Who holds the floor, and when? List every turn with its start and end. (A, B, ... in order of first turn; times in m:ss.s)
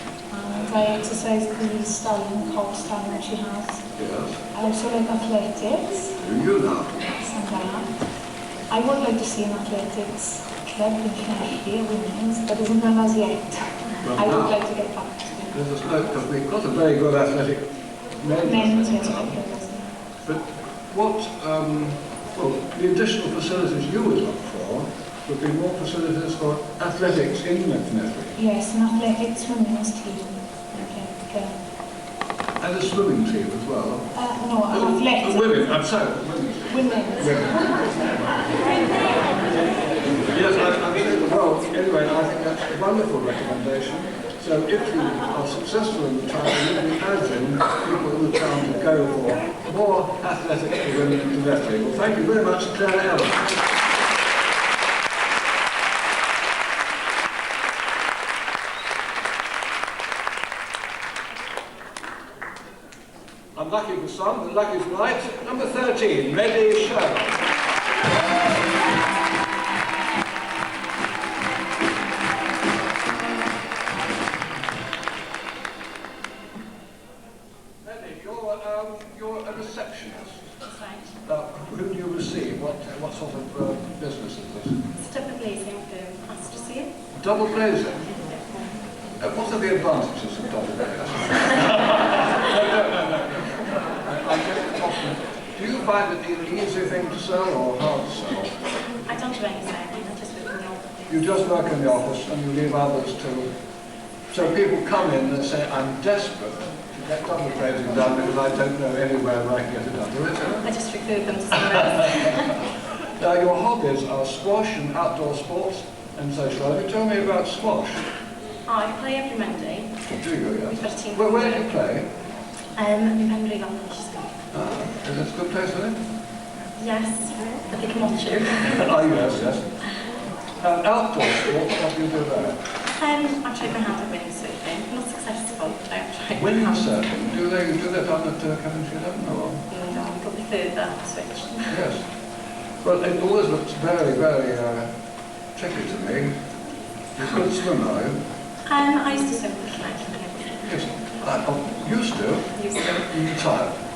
0:00.3-0:03.9 A
0:04.0-0:04.4 B
0:04.5-0:06.2 A
0:06.2-0:07.0 B
0:07.2-0:08.1 A
0:08.7-0:15.5 A
0:14.0-0:14.6 B
0:15.5-0:19.4 B
0:18.4-0:20.0 A
0:20.2-0:28.3 B
0:28.4-0:31.5 A
0:32.6-0:34.1 B
0:34.1-0:35.6 A
0:34.7-0:37.8 B
0:36.7-0:37.7 A
0:40.2-0:53.6 B
1:03.5-1:07.4 B
1:17.8-1:20.5 B
1:20.6-1:21.1 C
1:21.2-1:24.8 B
1:25.0-1:26.9 C
1:27.2-1:28.1 B
1:28.1-1:28.8 C
1:29.2-1:38.6 B
1:39.0-1:41.7 C
1:41.1-1:43.6 B
1:44.3-1:50.7 B
1:50.6-1:52.6 C
1:53.1-1:58.1 B
1:58.6-2:00.0 C
2:00.1-2:02.1 B
2:00.7-2:01.7 C
2:02.8-2:04.3 C
2:04.5-2:06.0 B
2:06.7-2:08.9 C
2:08.6-2:09.7 B
2:10.6-2:12.6 B
2:12.9-2:17.0 C
2:16.3-2:19.6 B
2:19.7-2:21.7 C
2:21.7-2:22.0 B
2:22.8-2:24.9 B
2:25.5-2:26.4 B
2:27.1-2:28.2 B
2:28.7-2:31.0 C
2:30.6-2:33.8 B
2:32.5-2:33.1 C